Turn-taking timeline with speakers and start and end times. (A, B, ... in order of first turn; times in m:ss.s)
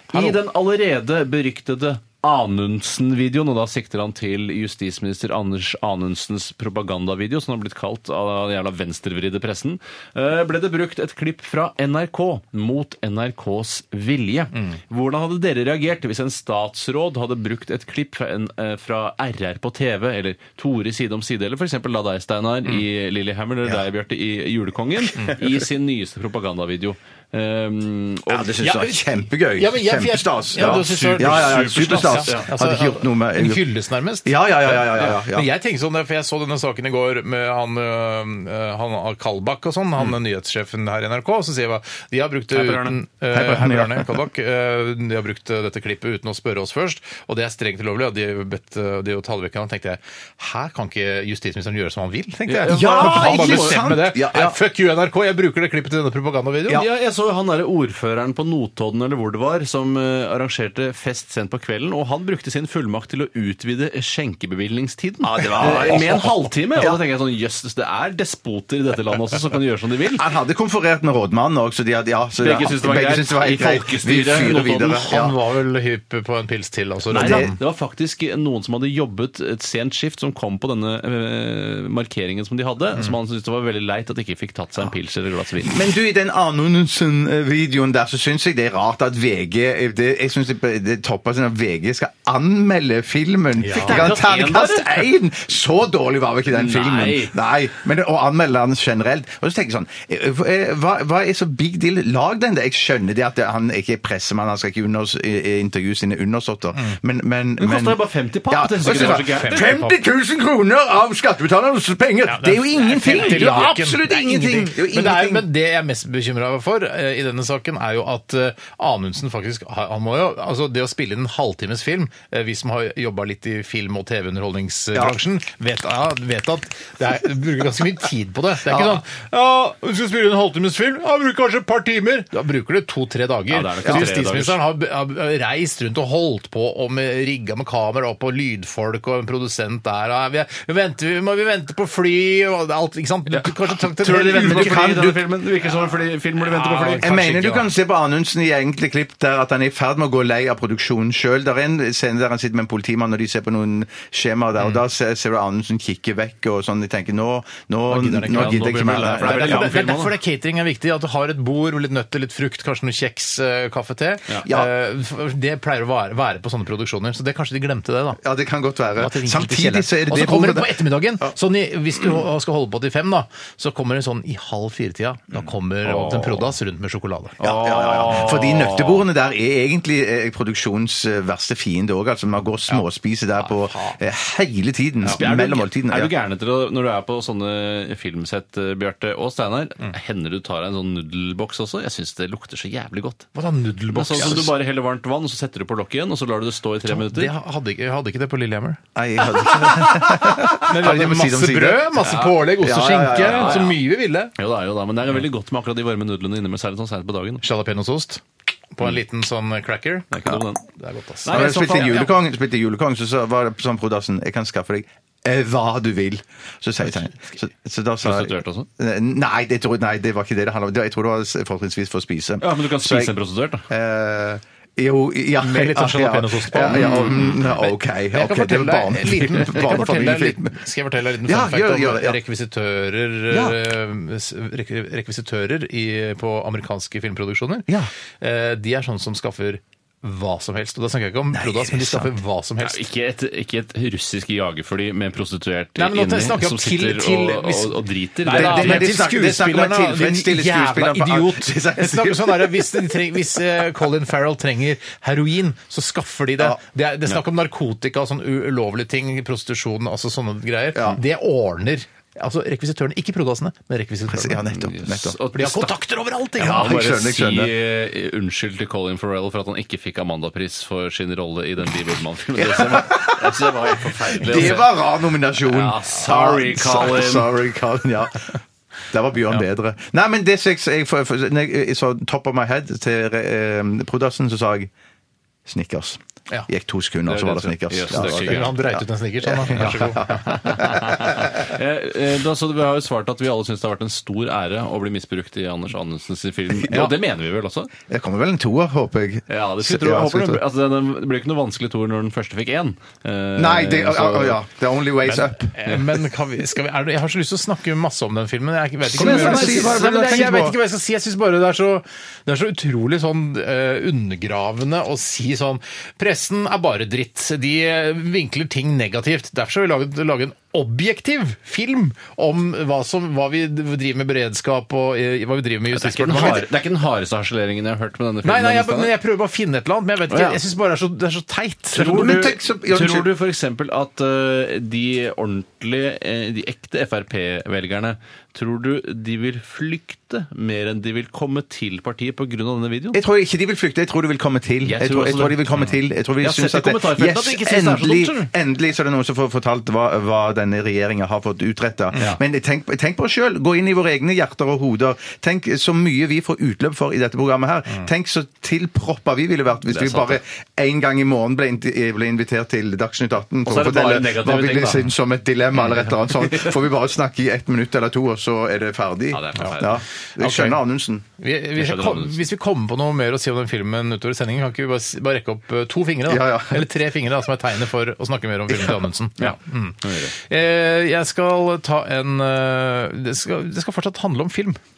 0:00.1-0:28.6 A
0:28.3-0:33.6 B
0:28.6-0:29.0 C
0:29.5-0:56.8 C
0:30.6-0:32.5 A
0:34.2-0:35.5 B
0:42.5-0:43.0 A
0:43.3-0:44.2 B
0:52.5-0:53.9 A
0:52.7-0:54.6 B
0:56.7-1:10.2 A
1:05.2-1:07.0 B
1:10.1-1:15.3 B
1:12.4-1:15.0 A
1:14.8-1:17.6 C
1:17.1-1:17.5 B
1:17.1-1:25.8 A
1:25.7-1:55.5 B
1:33.6-1:34.0 C
1:33.7-1:35.1 A
1:36.5-1:37.4 A
1:47.6-1:49.8 A
1:48.9-1:49.9 C
1:52.3-2:25.1 C
1:53.2-1:53.6 A
2:08.6-2:09.0 B
2:13.5-2:14.6 A
2:23.4-2:27.1 A
2:24.1-2:25.2 B
2:26.4-2:27.7 C
2:27.0-2:39.7 B
2:37.9-2:48.2 C
2:38.3-2:40.1 A
2:44.4-2:44.7 B
2:48.2-2:51.3 B
2:49.0-2:57.4 C
2:55.8-2:56.5 A
2:57.4-2:59.0 A
2:57.4-3:06.1 B
3:03.4-3:04.0 C
3:05.1-3:13.3 A
3:13.3-3:14.5 C
3:13.9-3:17.3 A
3:14.2-3:14.5 B
3:16.8-3:18.8 C
3:18.9-3:23.7 B
3:20.5-3:24.3 C
3:22.0-3:22.5 A
3:23.1-3:23.8 A
3:24.3-3:27.4 A
3:27.4-3:30.1 C
3:30.1-3:30.6 A
3:30.8-3:32.0 C
3:31.2-3:32.1 A
3:31.3-3:43.1 B
3:38.0-3:38.7 A
3:42.4-3:43.7 A
3:43.7-3:50.6 B
3:45.4-3:57.7 C
3:46.7-3:47.4 A
3:51.2-3:52.2 B
3:53.3-3:53.6 B
3:58.2-4:02.8 C
4:01.3-4:02.1 B
4:02.6-4:08.9 A
4:05.8-4:24.4 C
4:08.3-4:12.9 B
4:20.7-4:21.0 B
4:24.1-4:25.2 B
4:24.6-4:25.7 A
4:25.3-4:26.7 C
4:26.4-4:27.5 B
4:26.4-4:34.8 A
4:32.4-4:33.6 B
4:34.1-4:38.4 B
4:35.4-4:37.3 A
4:38.9-4:44.7 B
4:45.4-4:51.4 B
4:47.1-4:48.6 A
4:47.9-4:50.5 C
4:49.5-4:57.7 A
4:57.9-5:00.4 B
4:59.3-5:04.4 A
5:03.4-5:05.5 B
5:05.0-5:26.4 C
5:08.9-5:10.6 B
5:09.0-5:09.8 A
5:25.7-5:28.9 A
5:26.1-5:26.5 B
5:28.2-5:31.9 C
5:31.7-5:33.1 B
5:31.7-5:43.0 A
5:42.9-6:11.0 B
5:44.6-5:48.3 A
5:59.7-6:00.2 A
6:03.4-6:04.9 A
6:05.6-6:06.5 A
6:09.1-6:09.8 A
6:10.2-6:10.6 C
6:11.2-6:24.6 C
6:11.6-6:12.2 A
6:16.1-6:16.7 B
6:18.5-6:18.8 B
6:19.8-6:20.1 A